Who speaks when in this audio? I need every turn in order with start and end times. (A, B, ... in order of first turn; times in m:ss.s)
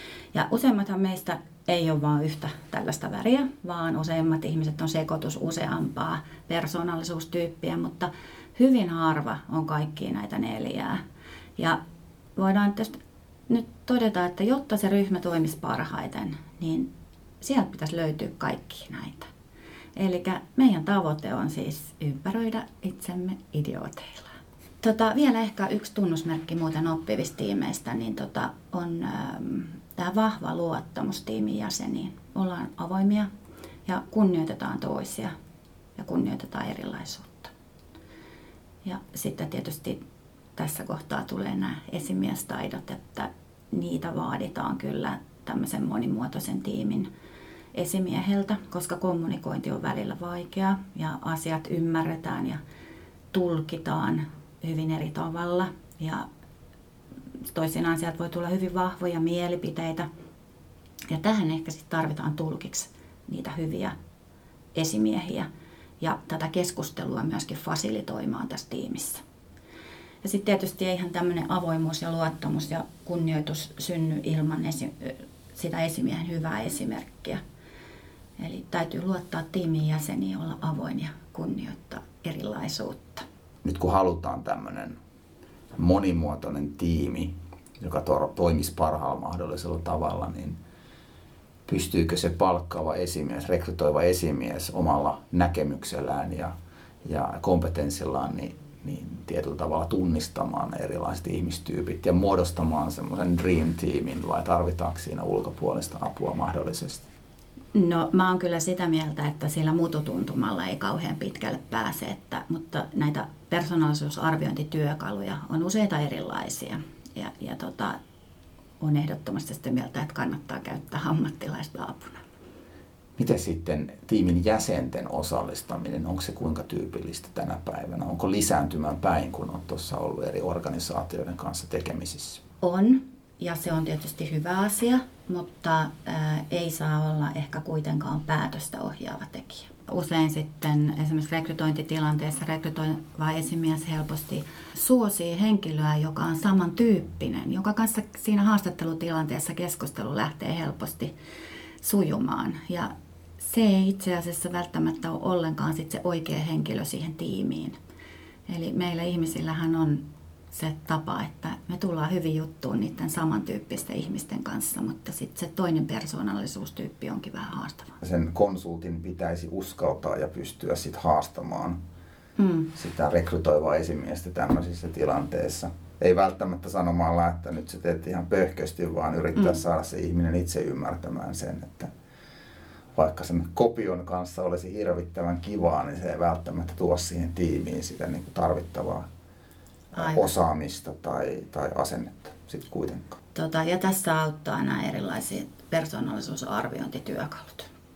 0:00.3-0:11.0 A
0:12.4-0:13.0 A
0:13.5-0:16.9 A
0:17.4-0:19.3 A
0:20.0-0:33.3 A
0:33.9-0:35.3 A
0:36.0-0:37.5 A
0:38.8-0:40.0 A
0:40.6-0:47.1 A
0:47.7-0:52.6 A
0:53.3-0:56.2 A
0:57.5-1:00.1 A
1:01.1-1:04.0 A
1:04.7-1:05.5 A
1:06.0-1:09.2 A
1:10.2-1:17.4 A
1:18.4-1:23.3 A
1:23.6-1:25.0 B
1:25.8-1:30.6 B
1:31.7-1:36.5 B
1:37.0-1:47.0 B
1:47.7-1:58.0 A
1:58.8-2:02.2 A
2:03.2-2:12.4 B
2:12.6-2:31.1 A
2:31.8-2:37.8 A
2:38.5-2:48.0 A
2:48.0-2:51.8 B
2:52.4-2:52.7 A
2:52.8-3:01.9 B
3:03.0-3:09.1 B
3:09.9-3:13.2 B
3:10.0-3:10.3 A
3:13.4-3:17.7 A